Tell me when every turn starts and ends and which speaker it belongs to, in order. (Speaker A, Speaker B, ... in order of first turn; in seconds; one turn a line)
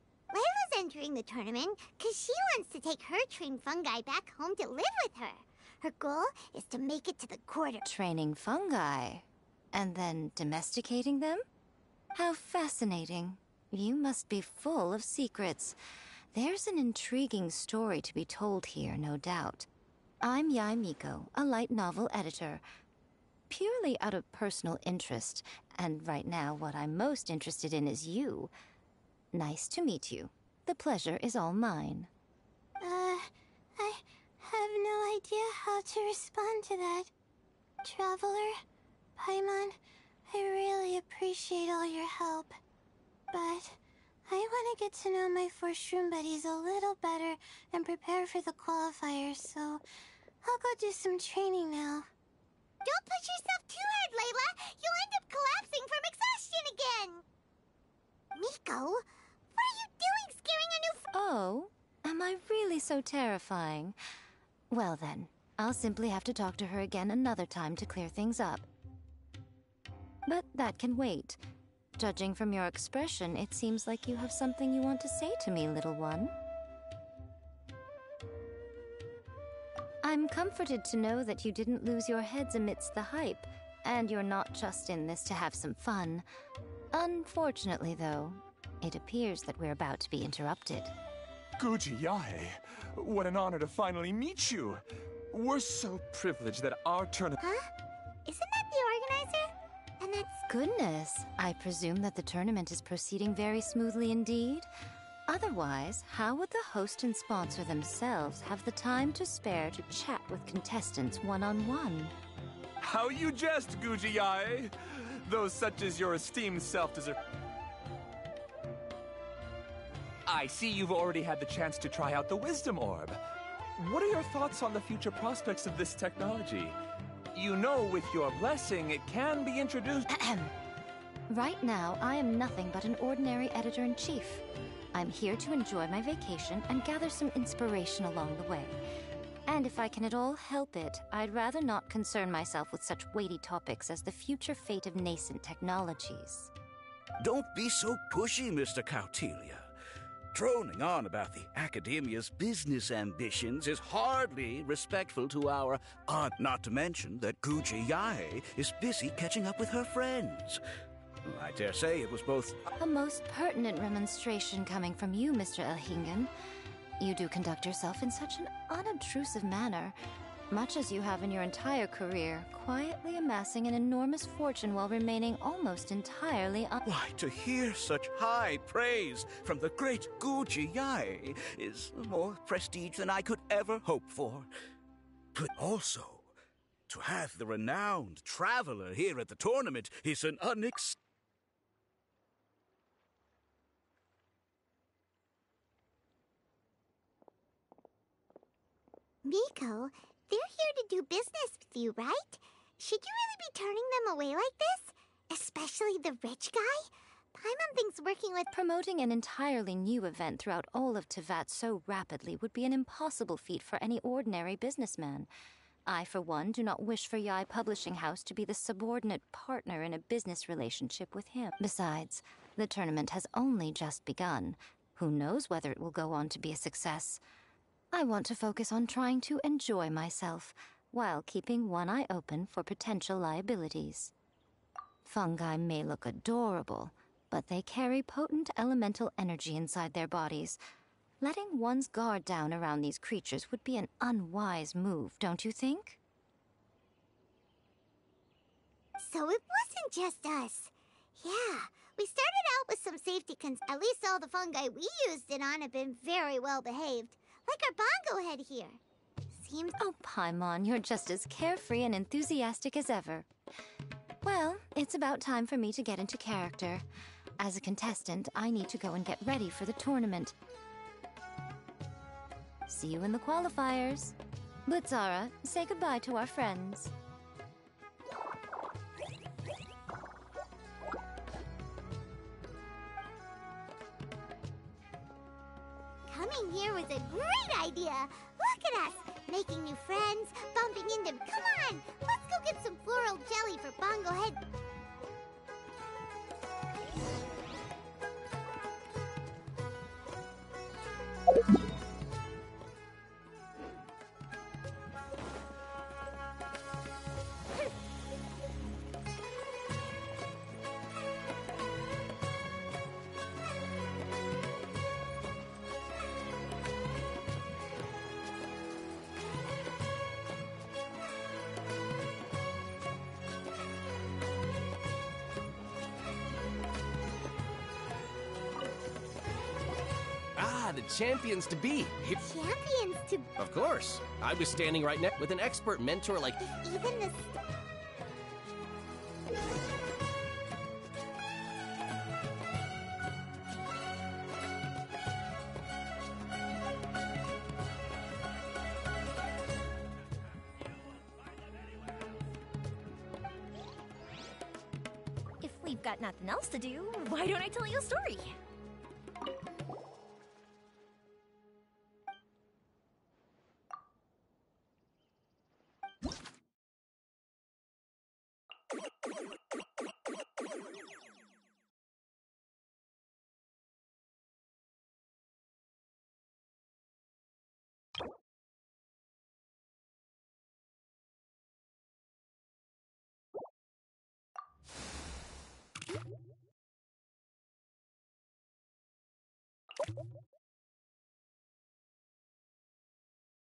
Speaker A: 0.3-7.8
Speaker B: 7.8-11.4
Speaker B: 12.1-15.8
Speaker B: 16.3-19.7
Speaker B: 20.2-22.6
Speaker B: 23.5-28.5
Speaker B: 29.3-32.1
Speaker C: 32.8-37.1
Speaker C: 37.8-38.6
Speaker C: 39.2-39.8
Speaker C: 40.3-42.6
Speaker C: 43.3-49.8
Speaker C: 50.4-52.1
Speaker A: 52.8-57.2
Speaker A: 58.3-61.0
Speaker B: 61.1-64.0
Speaker B: 64.7-68.7
Speaker B: 70.2-71.4
Speaker B: 72.0-76.3
Speaker B: 80.0-86.2
Speaker B: 86.9-90.9
Speaker D: 91.6-97.4
Speaker A: 97.4-97.7
Speaker A: 98.2-100.4
Speaker B: 100.5-104.7
Speaker B: 105.3-112.1
Speaker D: 112.8-117.2
Speaker D: 120.3-123.2
Speaker D: 123.8-126.8
Speaker D: 127.3-130.1
Speaker B: 130.1-130.5
Speaker B: 131.3-134.4
Speaker B: 134.9-138.8
Speaker B: 139.5-146.5
Speaker E: 147.2-149.7
Speaker E: 150.3-160.6
Speaker E: 161.2-162.6
Speaker B: 162.8-166.3
Speaker B: 167.0-169.9
Speaker B: 170.5-176.8
Speaker E: 176.8-184.5
Speaker E: 185.3-186.3
Speaker E: 186.9-191.0
Speaker A: 199.2-208.5
Speaker B: 208.5-215.3
Speaker B: 215.9-227.2
Speaker B: 227.9-234.1
Speaker B: 235.0-240.6
Speaker B: 241.2-246.0
Speaker A: 249.0-258.8
Speaker A: 259.3-259.8
Speaker B: 259.8-263.2
Speaker B: 264.2-266.8
Speaker B: 267.4-270.3
Speaker B: 272.7-276.9
Speaker A: 286.1-294.4
Speaker F: 330.4-332.2
Speaker A: 332.2-333.3
Speaker F: 333.4-336.4
Speaker A: 336.6-337.4
Speaker G: 355.4-358.4